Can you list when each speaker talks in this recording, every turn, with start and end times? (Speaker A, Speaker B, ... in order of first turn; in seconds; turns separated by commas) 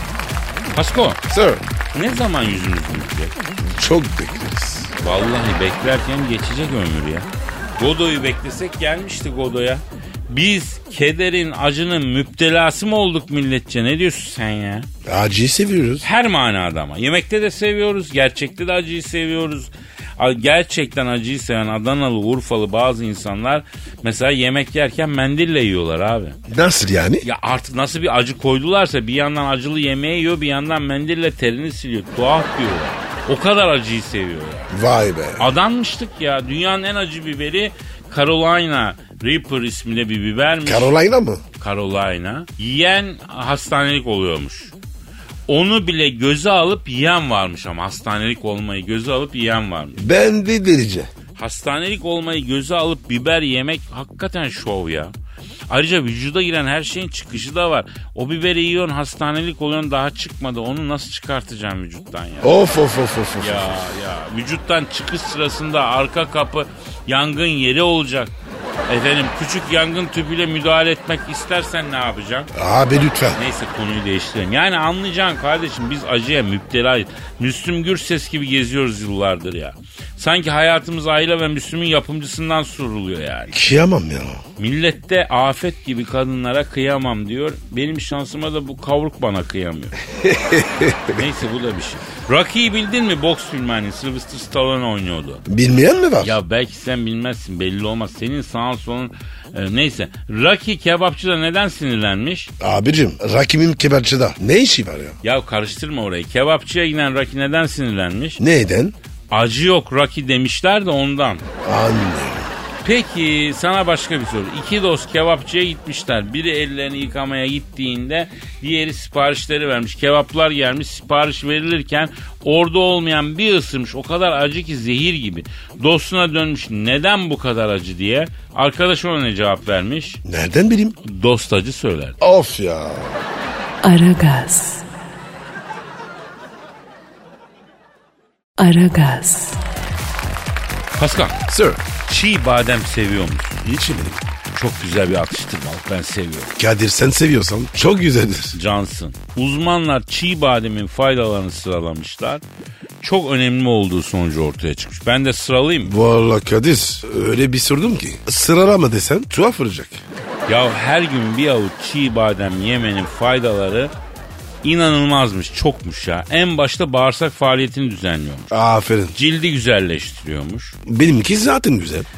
Speaker A: 0.7-1.2, Speaker B: 1.3-1.6, Speaker A: 1.9-3.4, Speaker B: 3.6-4.9, Speaker A: 5.0-14.9, Speaker B: 15.1-16.1, Speaker A: 16.0-26.4, Speaker B: 26.5-27.2, Speaker A: 27.2-34.7, Speaker B: 34.7-35.5, Speaker A: 35.4-40.9, Speaker B: 40.7-41.4, Speaker A: 41.6-44.7, Speaker A: 45.5-50.1, Speaker B: 50.0-51.1, Speaker A: 51.4-55.1, Speaker A: 55.7-62.5, Speaker B: 62.4-63.9, Speaker A: 63.4-68.3, Speaker A: 68.9-72.5, Speaker B: 72.5-73.4, Speaker A: 73.3-83.6, Speaker B: 83.5-84.4, Speaker A: 84.6-90.0, Speaker B: 90.2-91.2, Speaker A: 91.1-95.4, Speaker B: 95.5-96.3, Speaker A: 96.2-102.5, Speaker B: 102.6-105.2, Speaker A: 105.2-108.4, Speaker B: 108.4-109.0, Speaker A: 109.3-111.5, Speaker B: 111.6-112.5, Speaker A: 112.8-130.2, Speaker B: 130.2-131.0, Speaker A: 131.0-132.2, Speaker B: 132.2-133.2, Speaker C: 133.8-134.8, Speaker C: 138.6-139.6, Speaker A: 141.0-141.4, Speaker B: 141.5-141.8, Speaker A: 142.1-143.7, Speaker B: 143.7-144.2, Speaker A: 144.5-146.5, Speaker B: 146.6-148.6, Speaker A: 148.5-152.4, Speaker A: 153.0-155.9, Speaker B: 155.8-160.0, Speaker A: 160.5-163.9, Speaker A: 164.6-168.5, Speaker B: 168.5-169.2, Speaker A: 169.1-170.8, Speaker B: 170.9-172.1